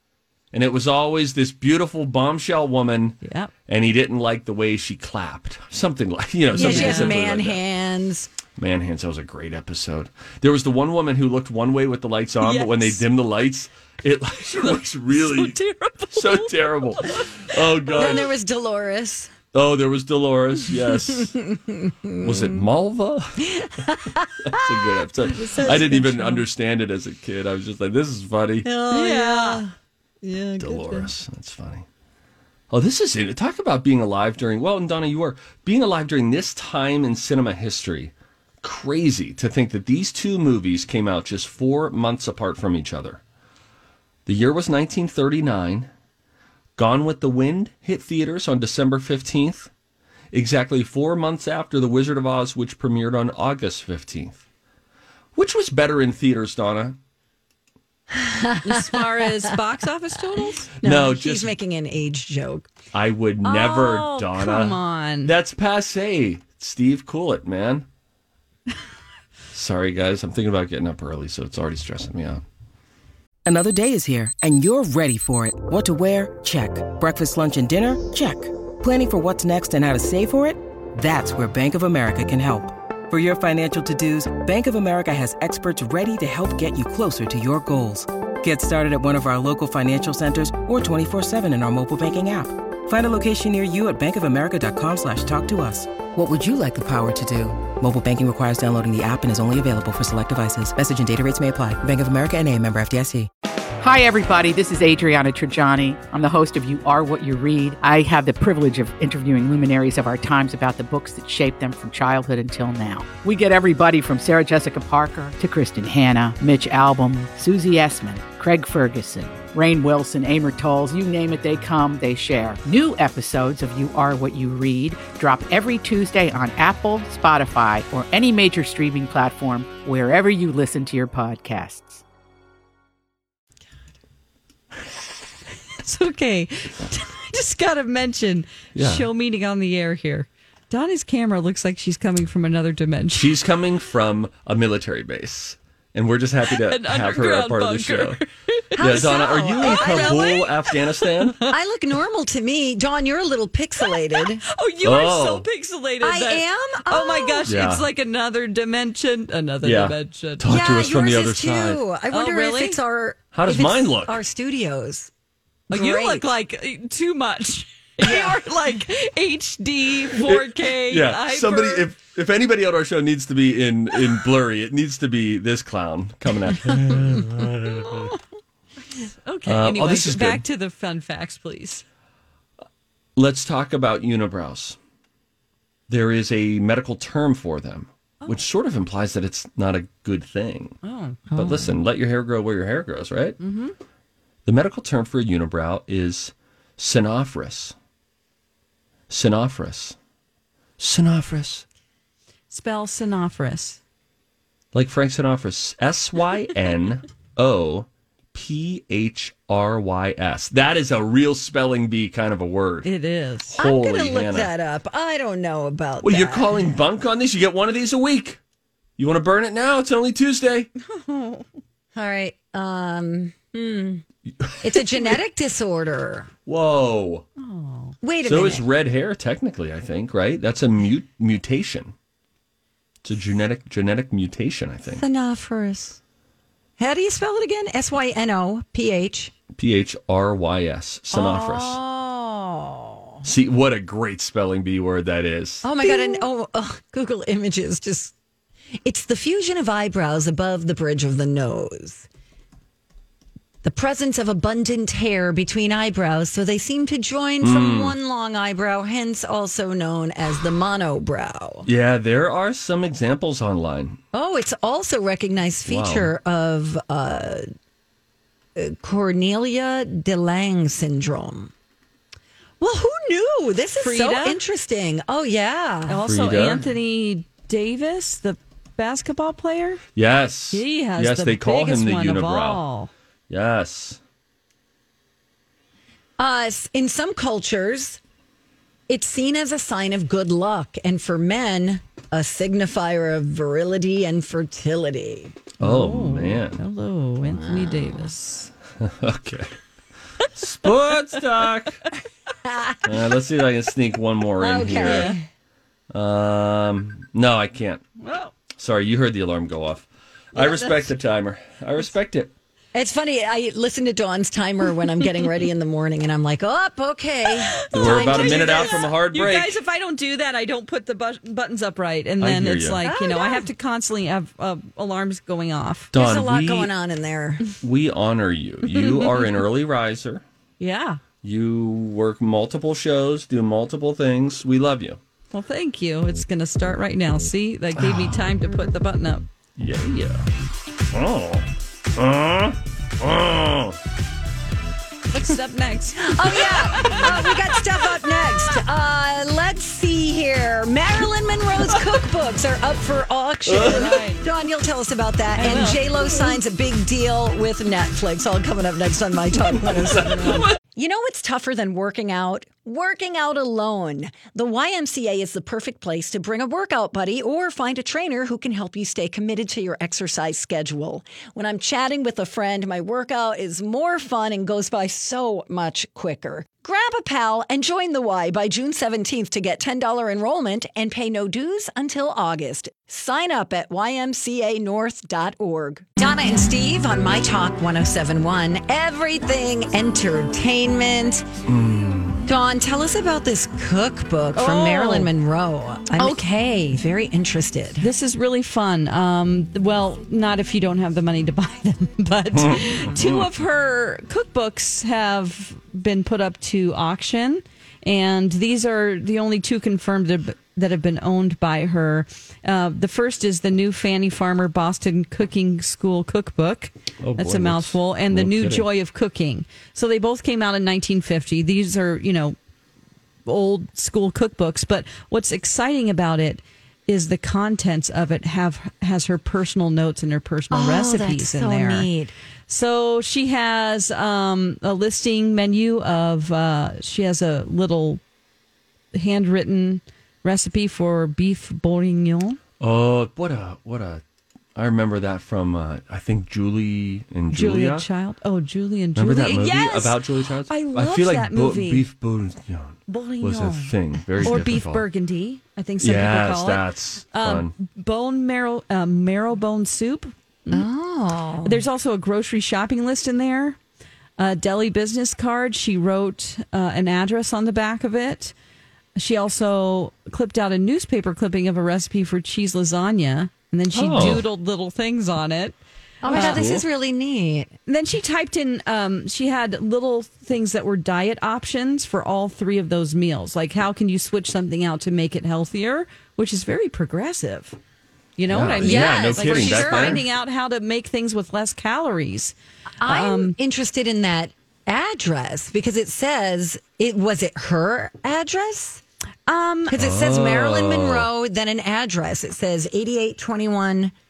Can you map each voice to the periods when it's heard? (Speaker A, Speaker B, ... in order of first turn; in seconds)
Speaker A: 0.5-7.6, 8.6-15.6, 16.1-18.3, 19.5-21.4, 22.2-23.5, 24.4-28.7, 30.6-31.8, 32.7-43.2, 44.2-45.9, 46.8-49.7, 50.3-54.4, 55.4-57.0, 60.8-61.5, 62.9-67.8, 69.5-72.4, 138.7-139.1, 143.1-148.2, 148.8-151.4, 154.8-155.4, 157.5-157.8, 159.6-161.8, 163.3-164.2, 170.2-178.1, 179.4-180.4, 183.2-184.8, 185.9-190.8, 191.3-193.4, 194.4-197.7, 199.1-199.9, 200.8-201.6, 204.7-212.9, 213.6-214.5, 216.0-218.4, 219.0-220.7, 224.4-225.1, 226.4-227.2, 228.2-231.9, 233.0-235.0, 239.6-241.8, 243.2-245.7, 257.4-257.9, 261.6-264.0, 265.7-266.1, 276.1-276.6, 279.9-282.6, 283.3-284.0, 295.6-296.6, 298.8-299.5, 300.3-301.8, 302.8-305.1, 305.9-307.8, 308.6-312.3, 317.7-319.6, 322.2-322.8, 325.9-326.7, 327.6-330.2, 331.2-335.0, 337.8-338.2, 339.6-340.2, 340.9-343.8, 353.5-353.9, 359.8-360.5, 391.5-392.2, 402.3-403.3, 417.0-418.6, 442.6-444.0, 444.6-447.9, 448.9-454.9, 455.8-457.5, 473.7-474.2, 476.1-476.6, 488.3-490.0, 499.7-501.1
Speaker B: 3.2-3.5, 6.5-7.1, 12.4-13.0, 15.1-18.1, 25.6-26.2, 28.9-29.6, 30.2-31.0, 58.6-60.7, 63.4-65.3, 135.8-143.3, 146.5-149.0, 149.6-151.1, 154.5-160.4, 162.1-162.8, 165.7-171.8, 177.8-178.2, 178.9-181.8, 190.8-191.2, 193.4-193.8, 202.5-203.8, 212.8-213.6, 220.8-221.5, 227.4-228.0, 273.8-274.4, 275.9-279.8, 280.5-282.9, 295.6-298.5, 304.8-305.1, 308.0-308.3, 317.6-325.9, 328.8-329.2, 330.6-331.0, 335.3-339.2, 345.1-347.6, 353.6-354.2, 355.4-356.3, 394.3-395.1, 397.8-422.4, 423.2-431.9, 432.5-438.0, 438.9-442.4, 447.3-451.9, 452.9-460.7, 461.4-463.6, 464.2-468.3, 468.9-476.4, 477.7-487.6, 488.2-493.4, 499.3-499.7
Speaker C: 6.5-8.3, 17.9-19.3, 21.1-22.6, 23.4-26.4, 28.6-29.7, 30.2-31.0, 58.1-59.5, 60.6-62.7, 148.8-150.4, 151.5-154.4, 156.0-157.5, 160.4-165.1, 165.7-166.3, 168.0-168.4, 191.3-191.7, 213.6-216.8, 221.9-224.0, 224.6-226.3, 228.0-228.7, 234.9-236.0, 236.8-239.3, 241.1-243.2, 245.6-248.1, 248.8-252.1, 253.6-261.7, 264.1-267.4, 268.5-271.5, 272.6-276.0, 286.2-288.0, 288.9-295.4, 297.2-298.1, 302.4-302.8, 304.4-305.2, 310.4-310.8, 312.7-318.9, 322.8-323.5, 325.9-327.4, 346.0-391.3, 392.2-397.9, 430.5-432.1, 460.5-461.6, 476.0-477.5, 488.6-490.0, 492.8-498.8, 499.7-503.9
Speaker D: 73.4-103.3
Speaker E: 103.8-132.0